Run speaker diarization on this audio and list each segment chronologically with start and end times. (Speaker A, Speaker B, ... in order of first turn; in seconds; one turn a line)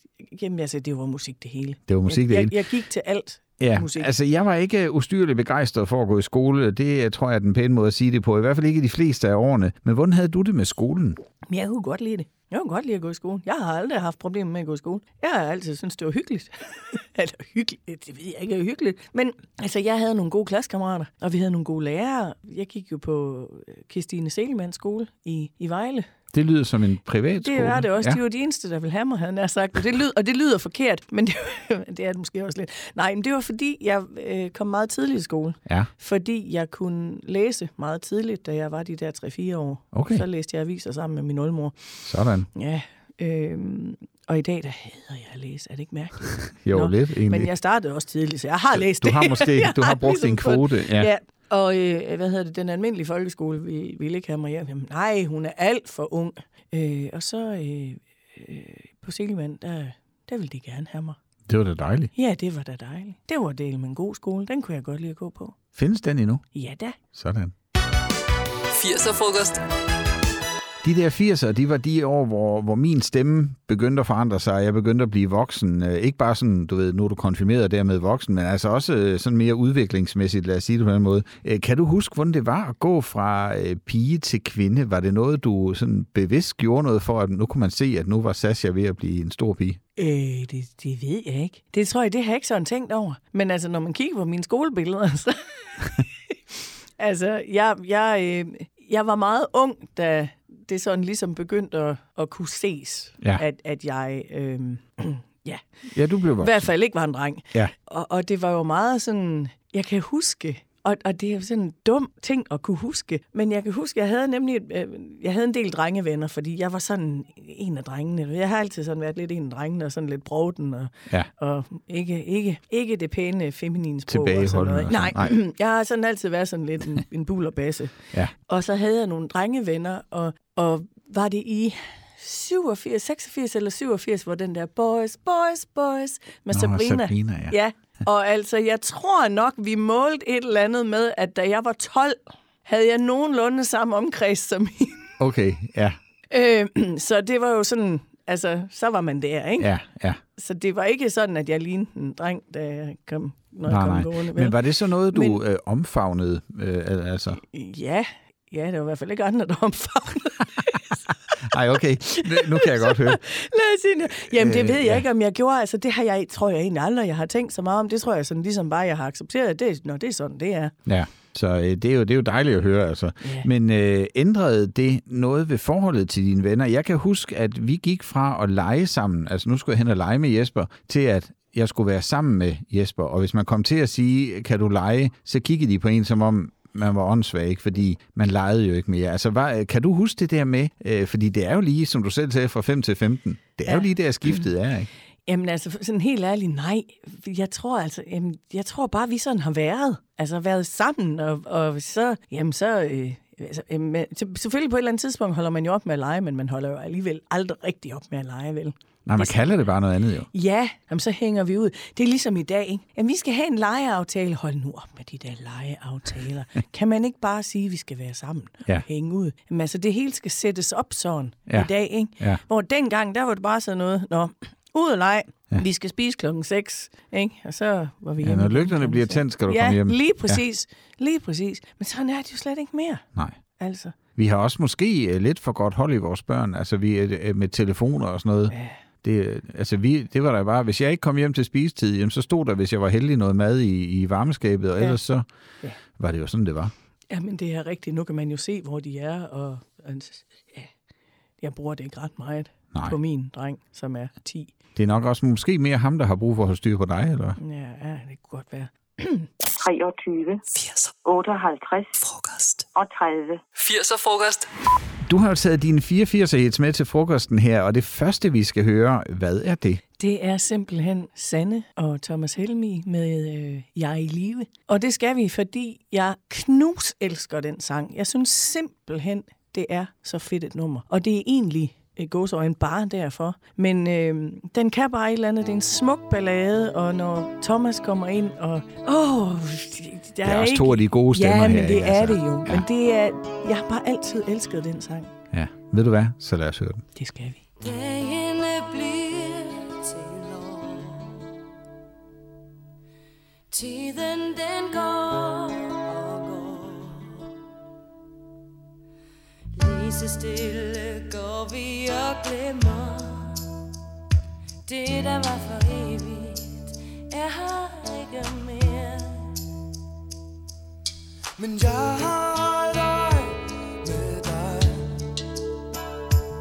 Speaker A: 0.2-4.1
Speaker B: 1.9-2.5
Speaker B: 3.6-11.2
Speaker A: 11.5-26.1
Speaker B: 26.3-28.2
Speaker A: 27.4-42.0
Speaker B: 39.9-40.2
Speaker B: 42.0-42.5
Speaker A: 42.5-61.2
Speaker B: 46.6-47.5
Speaker B: 48.7-51.1
Speaker B: 61.5-62.1
Speaker A: 62.1-65.5
Speaker B: 65.7-66.5
Speaker A: 66.5-67.0
Speaker B: 67.1-67.5
Speaker C: 68.7-69.6
Speaker B: 70.8-89.8
Speaker A: 90.0-96.1
Speaker A: 97.0-105.6
Speaker B: 105.9-106.7
Speaker A: 106.4-145.1
Speaker B: 124.1-125.3
Speaker B: 136.5-137.6
Speaker B: 145.2-146.0
Speaker A: 146.3-149.7
Speaker B: 149.6-150.2
Speaker A: 150.3-154.6
Speaker B: 153.7-157.4
Speaker A: 155.1-155.4
Speaker A: 157.4-161.1
Speaker B: 161.4-163.2
Speaker A: 162.1-170.7
Speaker B: 164.2-165.0
Speaker B: 170.8-194.9
Speaker A: 173.2-173.5
Speaker A: 193.7-194.5
Speaker A: 195.3-209.7
Speaker B: 209.1-210.3
Speaker A: 210.3-233.0
Speaker B: 221.5-222.4
Speaker B: 228.2-230.4
Speaker A: 233.6-234.0
Speaker B: 234.2-245.2
Speaker A: 238.5-238.8
Speaker B: 245.9-246.7
Speaker A: 247.1-250.7
Speaker A: 251.4-254.5
Speaker B: 254.8-257.4
Speaker A: 257.4-259.3
Speaker D: 259.6-260.4
Speaker C: 260.5-260.9
Speaker D: 261.0-261.9
Speaker C: 262.0-262.6
Speaker D: 262.7-263.4
Speaker C: 263.5-264.5
Speaker B: 265.0-269.8
Speaker A: 270.0-295.1
Speaker B: 290.2-292.6
Speaker B: 295.3-296.8
Speaker A: 296.9-297.4
Speaker E: 297.9-299.7
Speaker E: 303.5-305.5
Speaker E: 306.2-306.9
Speaker E: 309.6-313.2
Speaker E: 314.8-316.4
Speaker E: 317.4-319.1
Speaker F: 321.4-325.0